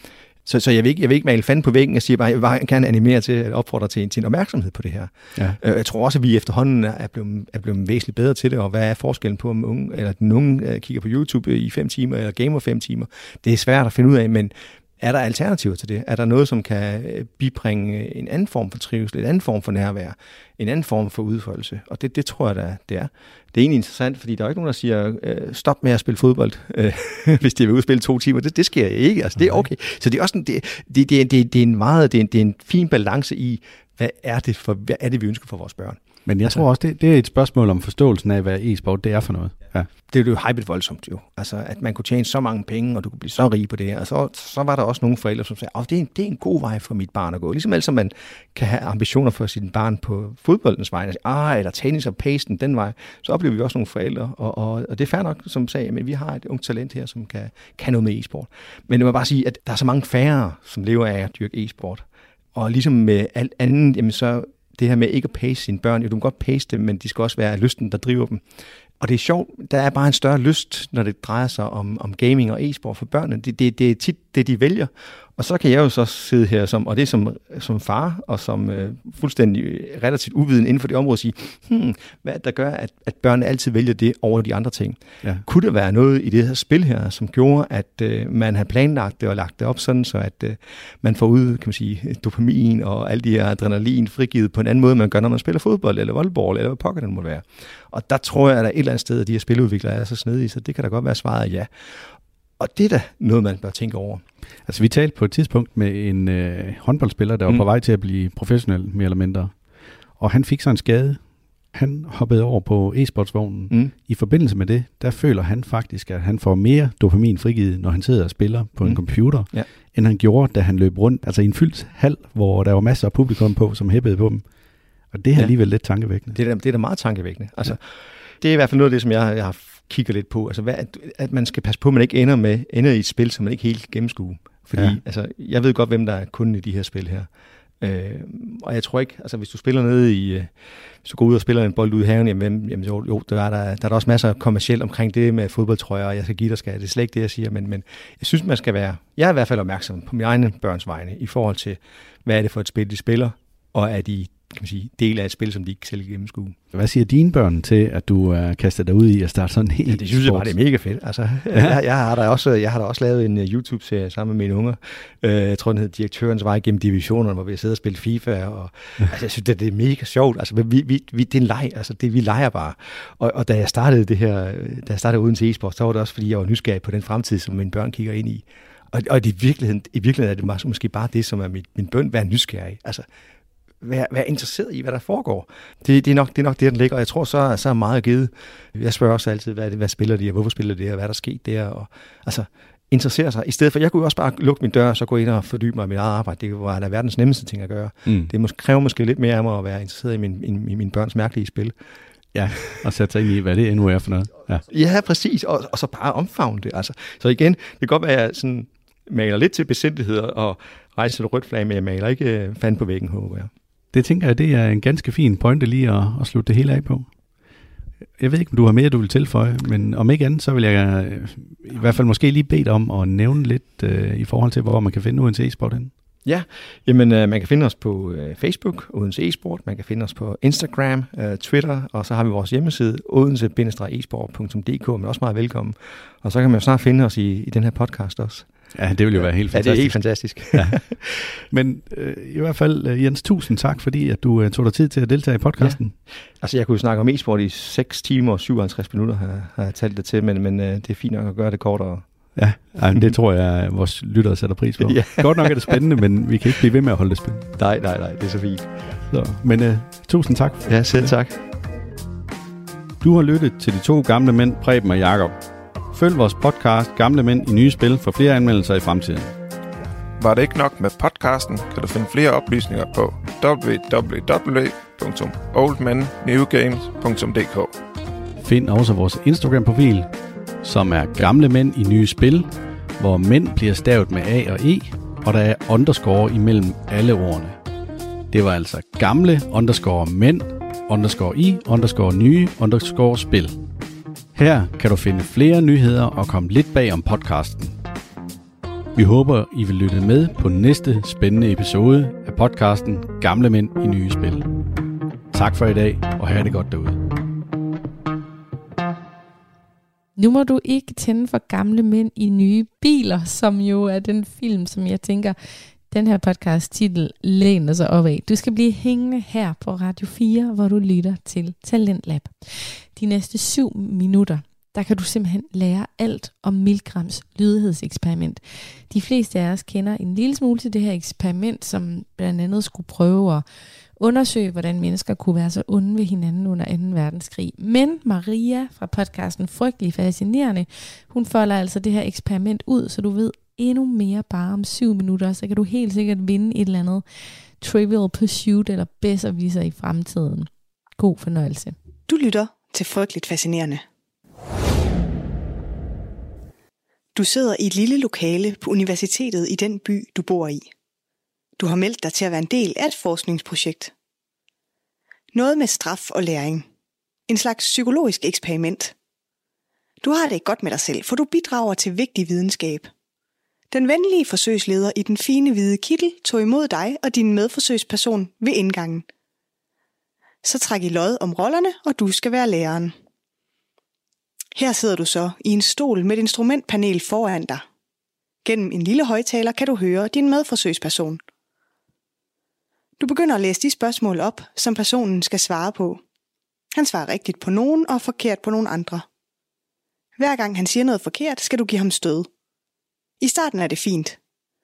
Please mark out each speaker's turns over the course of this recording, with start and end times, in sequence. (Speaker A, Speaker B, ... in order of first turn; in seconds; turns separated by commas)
Speaker A: 0.4-36.6, Speaker B: 29.4-29.6, Speaker B: 36.2-39.9, Speaker A: 40.1-68.4, Speaker A: 69.0-104.2, Speaker B: 104.7-124.5, Speaker A: 118.8-119.7, Speaker B: 125.1-126.4, Speaker A: 126.3-137.3, Speaker A: 137.8-156.6, Speaker B: 156.7-160.5, Speaker A: 159.9-183.1, Speaker A: 183.8-201.7, Speaker B: 198.1-198.3, Speaker B: 202.3-204.6, Speaker A: 204.7-213.5, Speaker B: 213.9-217.1, Speaker B: 218.2-225.9, Speaker A: 226.2-238.5, Speaker B: 238.7-240.0, Speaker A: 239.1-241.2, Speaker B: 241.5-245.9, Speaker A: 246.4-252.0, Speaker B: 252.3-257.5, Speaker A: 254.8-255.8, Speaker A: 257.6-258.7, Speaker B: 259.1-261.1, Speaker A: 260.7-261.4, Speaker B: 263.0-265.4, Speaker B: 265.9-269.3, Speaker C: 270.2-277.7, Speaker B: 278.4-287.6, Speaker B: 288.3-293.6, Speaker B: 294.3-297.8, Speaker B: 298.9-304.5, Speaker B: 305.3-307.0, Speaker D: 310.1-315.4, Speaker D: 315.9-333.4, Speaker D: 334.0-347.0, Speaker D: 347.6-351.8, Speaker E: 352.1-353.8, Speaker E: 357.1-360.7, Speaker E: 361.6-363.9, Speaker E: 365.3-366.6, Speaker E: 367.3-368.9, Speaker E: 370.0-372.9, Speaker E: 373.7-379.1, Speaker E: 380.4-382.9, Speaker E: 384.5-387.6, Speaker E: 388.4-391.2, Speaker E: 393.0-396.0, Speaker E: 396.7-399.1, Speaker E: 400.2-402.3, Speaker E: 403.2-404.2